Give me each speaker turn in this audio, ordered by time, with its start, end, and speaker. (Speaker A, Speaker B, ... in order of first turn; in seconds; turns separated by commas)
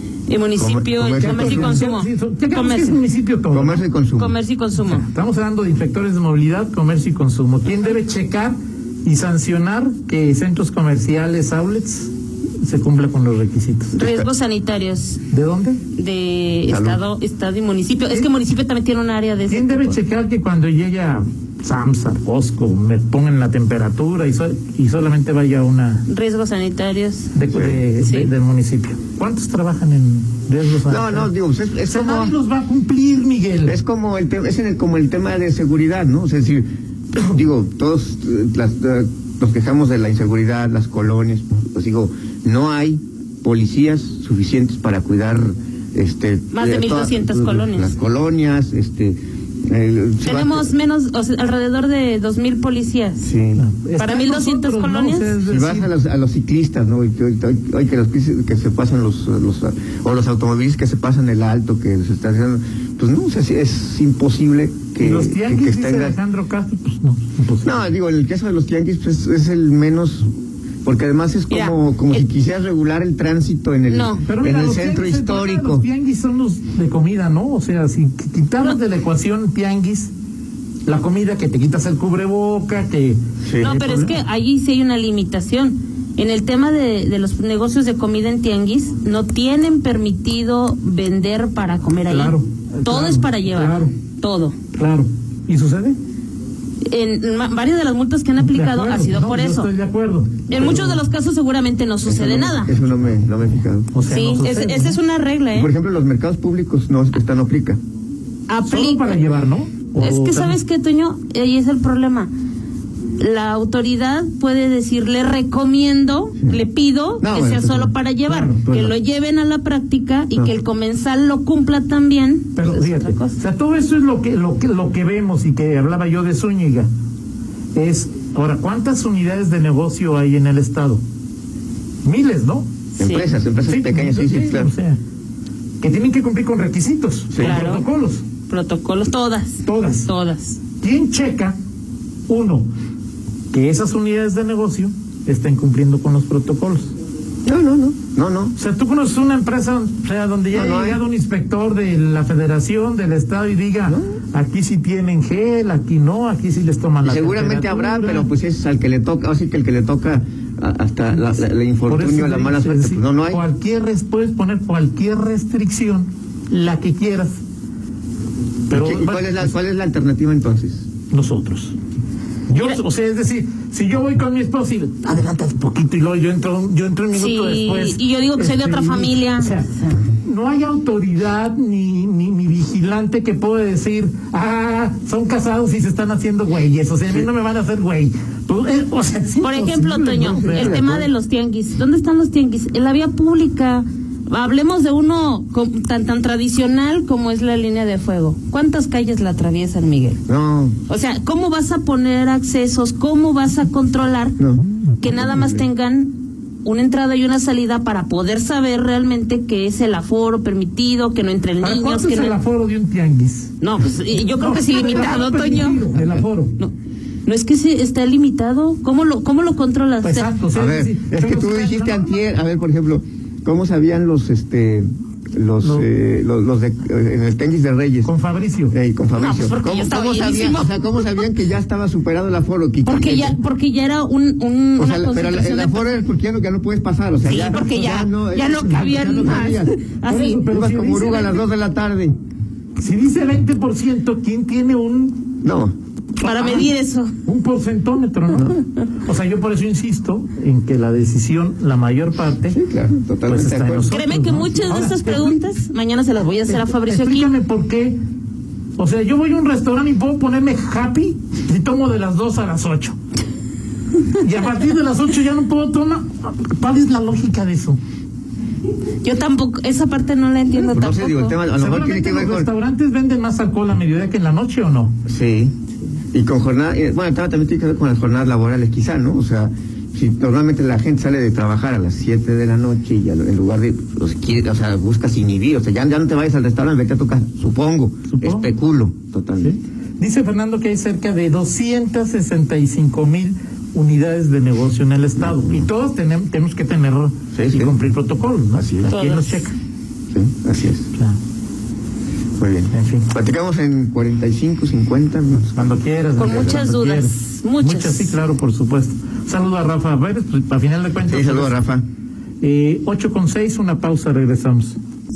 Speaker A: 0.3-3.0, Speaker B: 0.6-1.8, Speaker C: 1.2-3.9, Speaker B: 3.5-4.4, Speaker A: 4.2-5.0, Speaker C: 4.8-14.0, Speaker A: 13.9-15.2, Speaker B: 14.0-14.3, Speaker C: 15.3-15.8, Speaker A: 16.0-20.0, Speaker B: 16.7-17.0, Speaker C: 19.5-26.1, Speaker A: 26.1-27.3, Speaker C: 27.3-31.3, Speaker B: 27.5-27.9, Speaker A: 28.0-28.3, Speaker B: 30.9-32.4, Speaker C: 31.8-33.8, Speaker B: 33.6-50.7, Speaker A: 46.5-48.0, Speaker A: 50.2-53.3, Speaker B: 53.2-53.6, Speaker C: 53.5-55.9, Speaker A: 54.0-55.3, Speaker B: 55.4-66.2, Speaker C: 65.0-67.9, Speaker B: 67.6-70.3, Speaker B: 70.8-75.9, Speaker A: 71.5-72.2, Speaker A: 73.9-74.2, Speaker C: 74.3-80.1, Speaker C: 80.8-84.2, Speaker B: 83.4-83.7, Speaker A: 83.6-94.5, Speaker C: 92.1-93.9, Speaker C: 94.7-96.0, Speaker A: 96.9-99.7, Speaker C: 98.4-101.0, Speaker A: 100.5-102.7, Speaker B: 100.6-100.9, Speaker B: 102.0-103.9, Speaker C: 103.9-105.0, Speaker A: 104.1-105.7, Speaker B: 105.5-107.8, Speaker A: 108.5-109.2, Speaker C: 108.7-110.6, Speaker A: 110.0-112.3, Speaker A: 113.2-123.4, Speaker B: 117.2-117.9, Speaker C: 118.3-118.6, Speaker B: 118.6-119.0, Speaker C: 122.6-126.9, Speaker C: 127.7-131.0, Speaker C: 132.0-132.7, Speaker A: 133.0-133.3, Speaker B: 133.0-134.7, Speaker C: 133.7-135.0, Speaker C: 135.8-138.3, Speaker B: 137.3-137.6, Speaker A: 137.4-137.9, Speaker A: 138.5-140.6, Speaker C: 139.6-140.1, Speaker C: 140.8-141.6, Speaker C: 142.3-142.7, Speaker C: 143.5-146.9, Speaker B: 147.5-148.6, Speaker C: 148.6-158.3, Speaker B: 150.5-151.0, Speaker B: 153.9-154.2, Speaker B: 157.0-163.4, Speaker C: 161.9-167.4, Speaker C: 168.7-169.5, Speaker B: 168.7-170.9, Speaker C: 171.1-171.8, Speaker C: 172.5-190.9, Speaker A: 172.5-172.8, Speaker A: 177.1-180.0, Speaker A: 189.4-200.2, Speaker B: 190.3-191.1, Speaker B: 200.3-200.8, Speaker A: 200.9-204.4, Speaker B: 204.4-205.6, Speaker A: 205.0-212.4, Speaker C: 211.6-213.5, Speaker A: 213.6-215.9, Speaker C: 214.3-216.6, Speaker A: 217.3-220.3, Speaker C: 220.0-222.2, Speaker B: 220.5-228.1, Speaker C: 225.6-225.9, Speaker C: 228.0-228.8, Speaker B: 228.7-233.4, Speaker A: 229.2-231.2, Speaker A: 232.9-235.9, Speaker B: 234.8-239.8, Speaker A: 237.2-240.4, Speaker C: 240.1-241.4, Speaker B: 240.5-242.2, Speaker C: 242.8-245.3, Speaker B: 245.4-245.7, Speaker A: 246.2-247.1, Speaker C: 246.2-246.7, Speaker C: 247.2-248.5, Speaker B: 248.3-248.6, Speaker C: 249.0-252.6, Speaker B: 252.5-253.9, Speaker C: 253.3-255.4, Speaker A: 253.9-257.3, Speaker C: 256.5-258.0, Speaker C: 258.8-263.0, Speaker C: 264.1-267.8, Speaker A: 269.0-271.4, Speaker B: 270.7-272.5, Speaker C: 271.6-274.9, Speaker B: 275.1-275.6, Speaker B: 276.1-289.6, Speaker C: 288.1-288.5, Speaker C: 289.4-299.6, Speaker B: 295.2-295.7, Speaker B: 297.3-297.8, Speaker B: 298.5-298.9, Speaker A: 298.9-299.4, Speaker B: 300.1-300.9, Speaker B: 302.4-306.7, Speaker C: 302.7-303.1, Speaker C: 305.6-311.6, Speaker A: 306.2-308.2, Speaker B: 311.0-311.9, Speaker C: 312.4-314.8